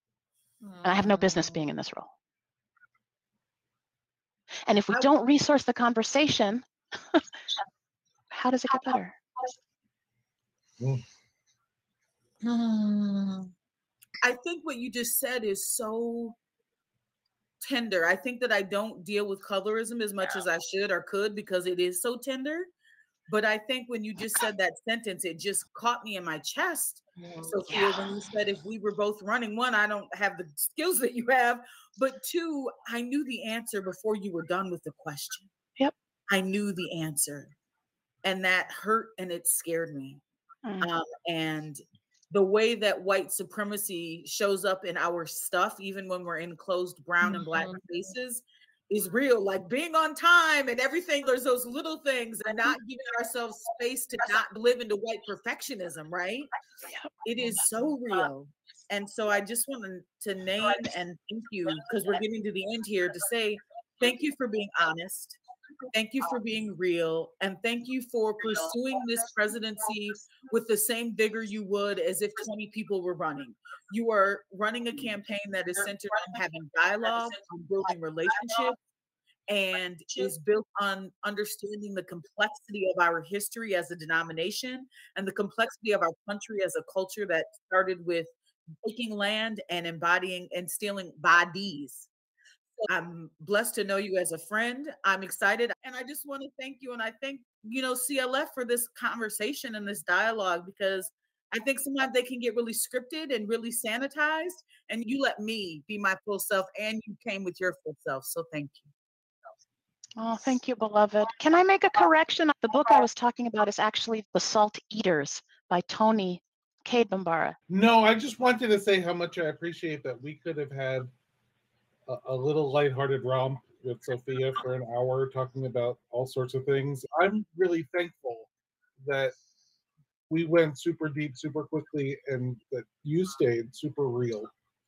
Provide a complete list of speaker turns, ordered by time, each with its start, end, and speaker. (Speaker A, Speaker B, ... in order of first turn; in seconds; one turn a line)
Speaker A: 0.6-1.6
Speaker B: 0.8-2.1
Speaker B: 4.7-7.2
Speaker B: 8.3-9.2
Speaker A: 12.4-13.5
Speaker C: 14.2-16.4
Speaker C: 17.6-22.7
Speaker C: 23.3-35.5
Speaker A: 27.2-27.6
Speaker B: 27.7-28.1
Speaker C: 36.3-37.5
Speaker C: 38.2-40.2
Speaker C: 40.8-56.5
Speaker A: 47.3-47.8
Speaker C: 57.2-65.4
Speaker C: 65.9-78.8
Speaker C: 79.5-92.1
Speaker C: 92.8-108.9
Speaker B: 110.2-117.6
Speaker D: 117.7-121.1
Speaker D: 122.1-128.5
Speaker D: 129.0-129.3
Speaker D: 130.3-134.5